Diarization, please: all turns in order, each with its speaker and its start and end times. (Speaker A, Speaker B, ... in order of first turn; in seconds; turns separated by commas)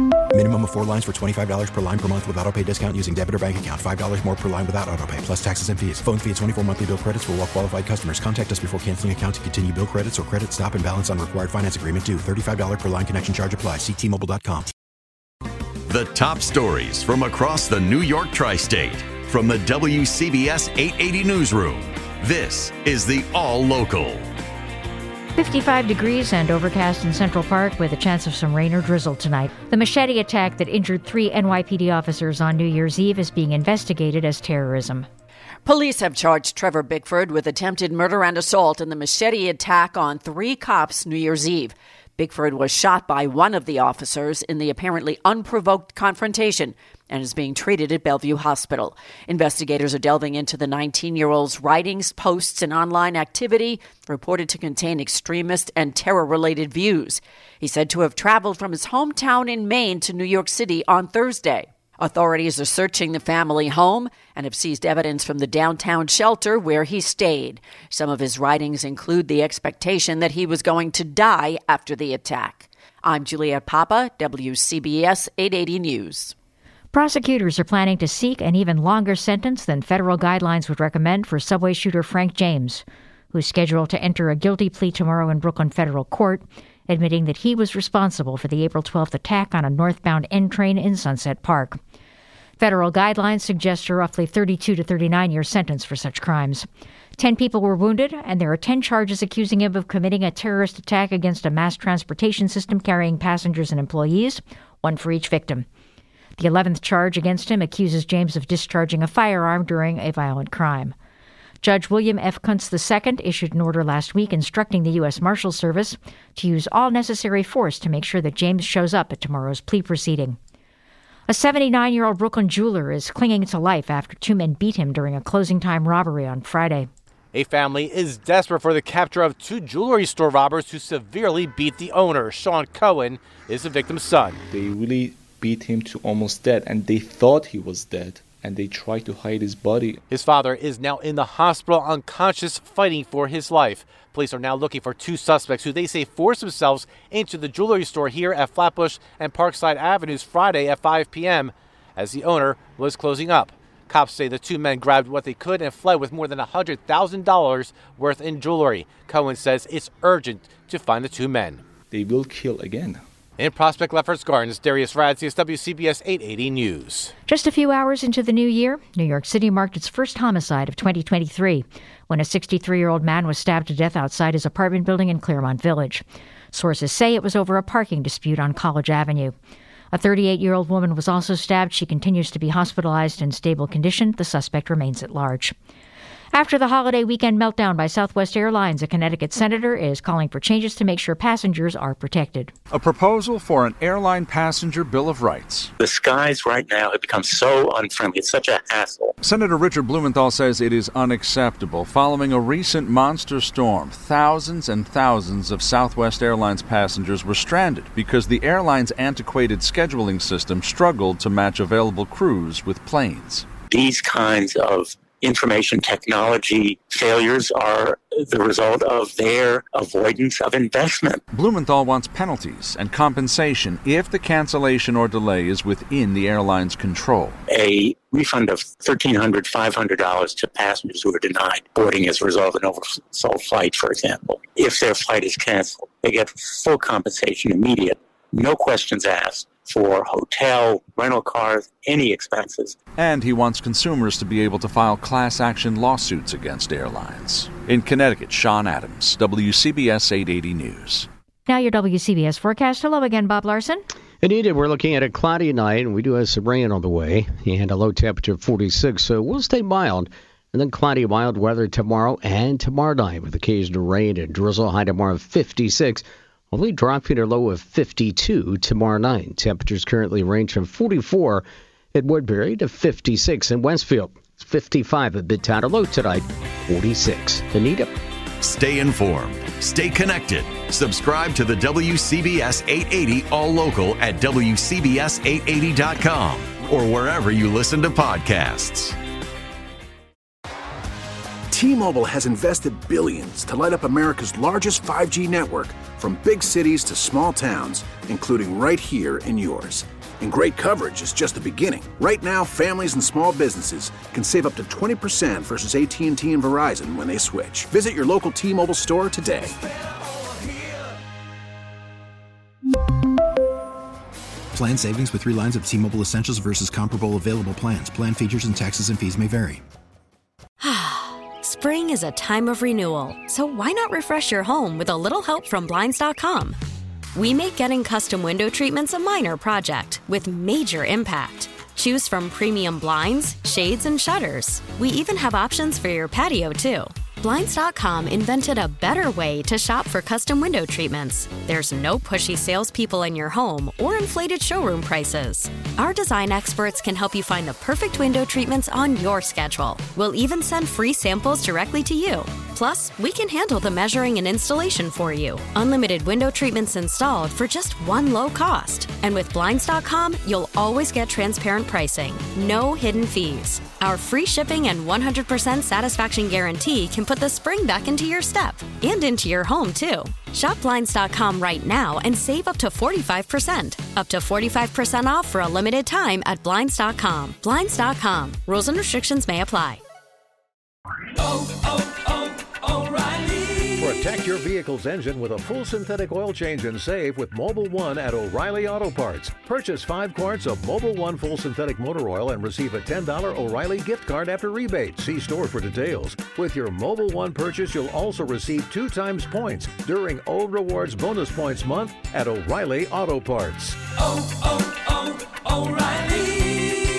Speaker A: 0.3-14.7, Speaker B: 15.9-24.3, Speaker C: 25.4-35.1, Speaker D: 35.6-76.3, Speaker C: 76.9-91.8, Speaker C: 92.6-96.7, Speaker C: 97.2-105.7, Speaker C: 106.4-110.9, Speaker C: 111.6-120.4, Speaker C: 121.3-126.9, Speaker E: 127.3-134.4, Speaker F: 134.5-140.0, Speaker E: 140.1-161.6, Speaker F: 161.9-163.0, Speaker E: 163.4-167.1, Speaker C: 167.3-179.3, Speaker C: 179.9-185.5, Speaker C: 186.3-192.5, Speaker G: 192.7-195.7, Speaker H: 195.8-199.1, Speaker G: 199.2-213.5, Speaker H: 213.7-221.2, Speaker G: 221.3-227.4, Speaker H: 227.5-242.7, Speaker G: 243.0-251.1, Speaker C: 251.5-253.8, Speaker I: 254.2-277.9, Speaker B: 278.4-288.9, Speaker J: 291.5-309.5, Speaker A: 314.5-319.6, Speaker K: 320.6-326.6, Speaker K: 327.1-379.8, Speaker L: 383.8-403.8